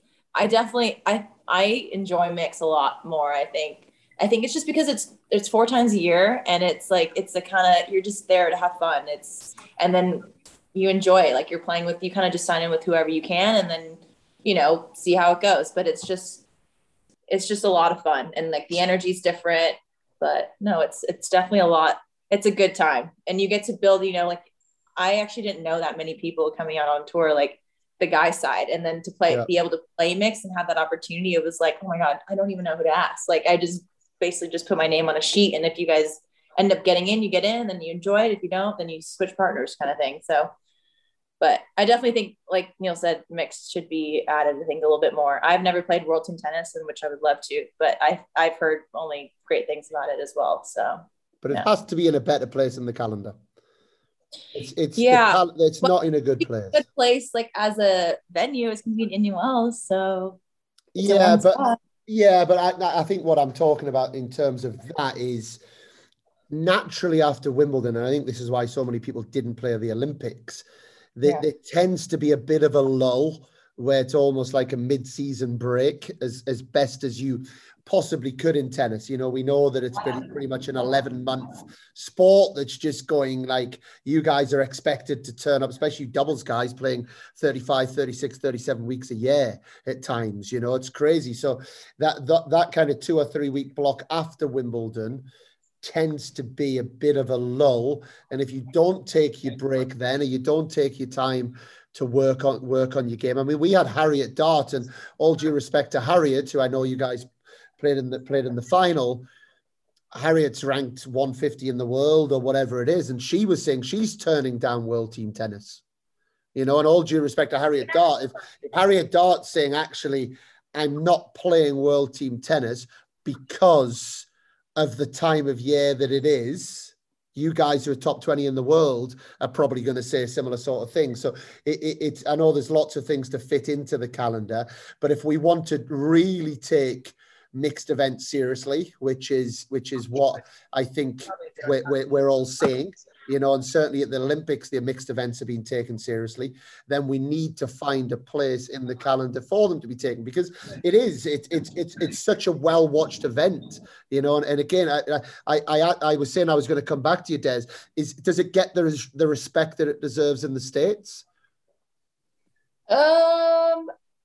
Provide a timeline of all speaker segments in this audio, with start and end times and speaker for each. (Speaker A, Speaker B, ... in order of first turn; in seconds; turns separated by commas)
Speaker A: 0.3-16.4, Speaker A: 17.3-40.5, Speaker A: 41.4-51.7, Speaker B: 51.4-53.4, Speaker B: 54.5-56.8, Speaker A: 55.0-55.9, Speaker A: 56.7-60.4, Speaker B: 60.9-65.6, Speaker A: 61.0-61.8, Speaker B: 66.5-70.7, Speaker B: 71.2-95.2, Speaker B: 95.8-107.3, Speaker B: 107.8-109.3, Speaker B: 110.1-115.8, Speaker B: 116.5-161.2, Speaker A: 162.9-163.9